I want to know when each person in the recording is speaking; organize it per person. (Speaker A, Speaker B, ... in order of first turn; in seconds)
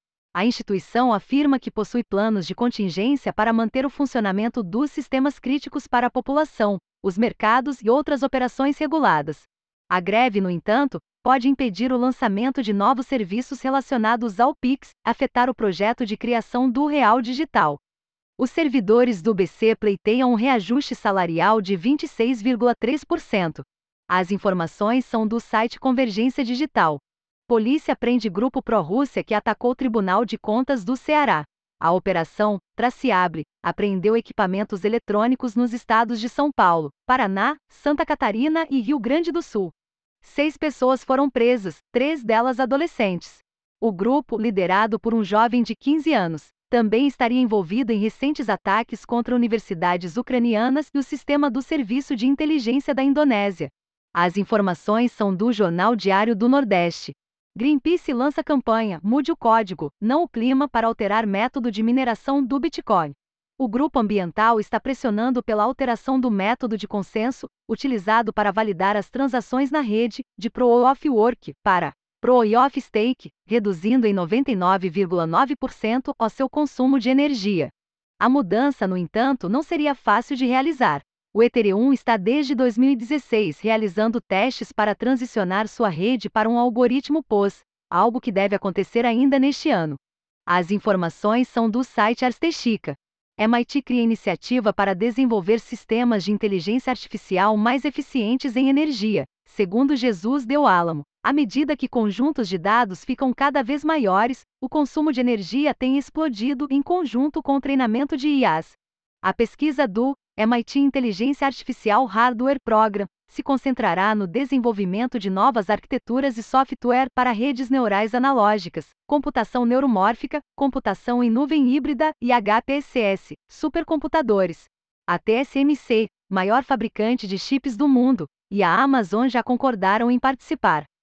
Speaker A: 0.3-17.8, 18.4-130.9